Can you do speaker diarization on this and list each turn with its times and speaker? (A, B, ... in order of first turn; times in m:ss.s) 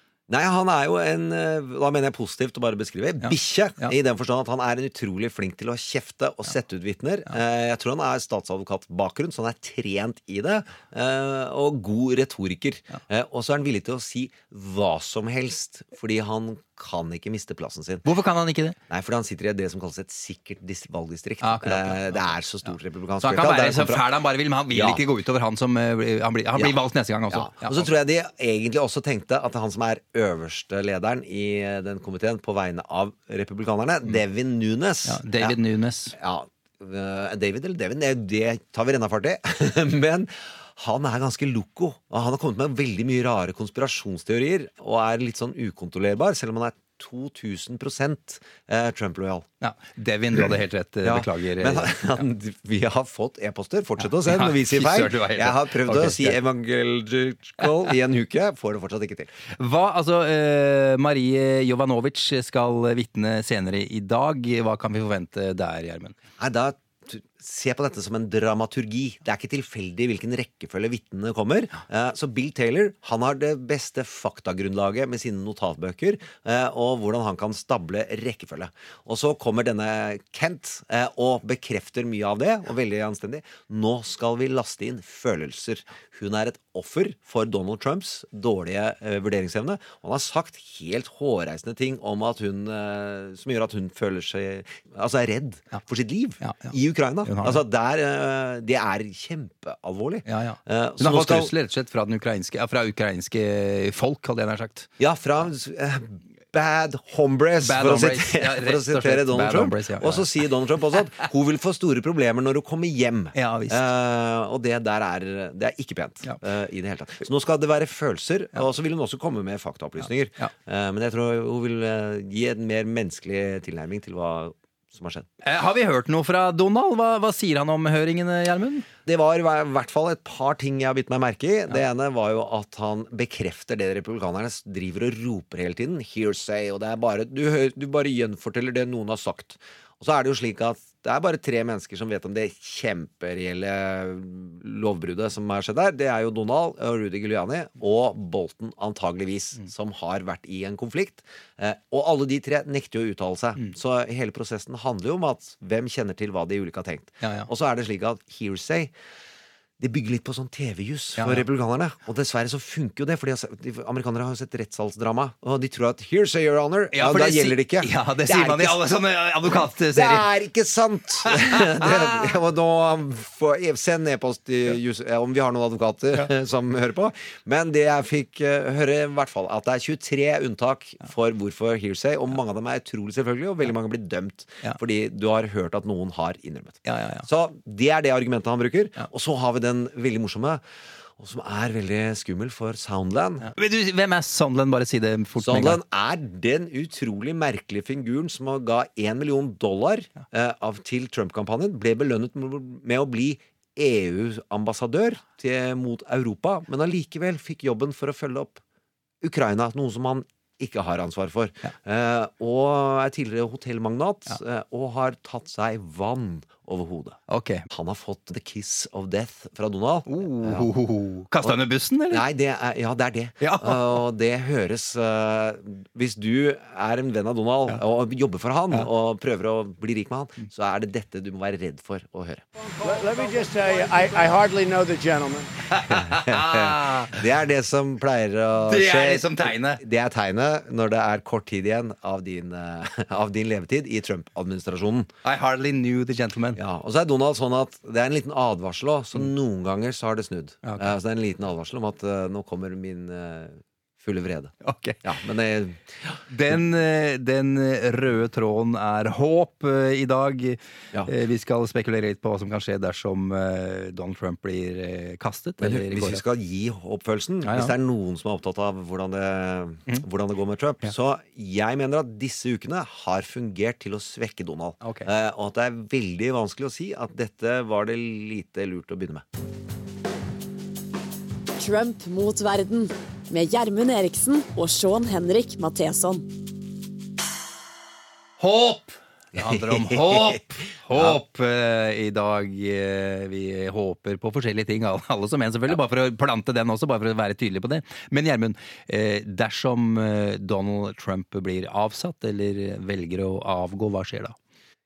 0:00.3-0:18.0 A
0:03.2-0:03.9 B
0:18.0-0:18.8 B
0:18.9-0:24.0 A
0:21.4-0:22.2 B
0:23.2-0:27.9 B
0:24.7-0:25.0 A
0:27.3-0:35.6 A
0:35.0-0:36.1 B
0:36.1-0:49.4 A
0:49.6-0:52.2 B
0:51.0-0:59.3 A
0:54.2-0:56.4 B
0:59.5-1:06.2 B
1:06.4-1:41.5 A
1:36.4-1:36.7 B
1:37.2-1:37.6 B
1:40.3-1:44.9 B
1:45.0-2:05.3 A
1:47.6-1:50.2 B
1:53.3-1:53.8 B
2:05.4-2:08.8 B
2:09.0-2:38.9 A
2:37.2-2:37.5 B
2:39.8-2:48.9 A
2:41.2-2:41.4 B
2:46.9-2:50.3 B
2:49.9-3:10.6 A
2:51.2-2:52.3 B
3:06.8-3:07.2 B
3:11.2-3:13.5 A
3:13.4-3:15.8 B
3:15.4-3:28.6 A
3:29.2-3:37.2 A
3:37.3-3:37.7 B
3:37.7-3:40.7 A
3:40.1-3:42.2 B
3:41.4-3:52.4 A
3:43.4-3:44.0 B
3:52.8-3:55.5 C
3:55.7-3:57.2 B
3:56.0-4:05.1 A
3:58.6-3:59.8 B
4:05.2-4:06.6 B
4:06.6-4:16.2 A
4:10.6-4:10.9 B
4:14.6-4:15.0 B
4:16.3-4:26.2 B
4:25.6-4:39.2 A
4:27.4-4:27.7 B
4:34.8-4:35.1 B
4:41.6-4:46.3 D
4:48.4-5:04.3 B
4:49.4-4:50.4 A
4:50.9-4:51.2 A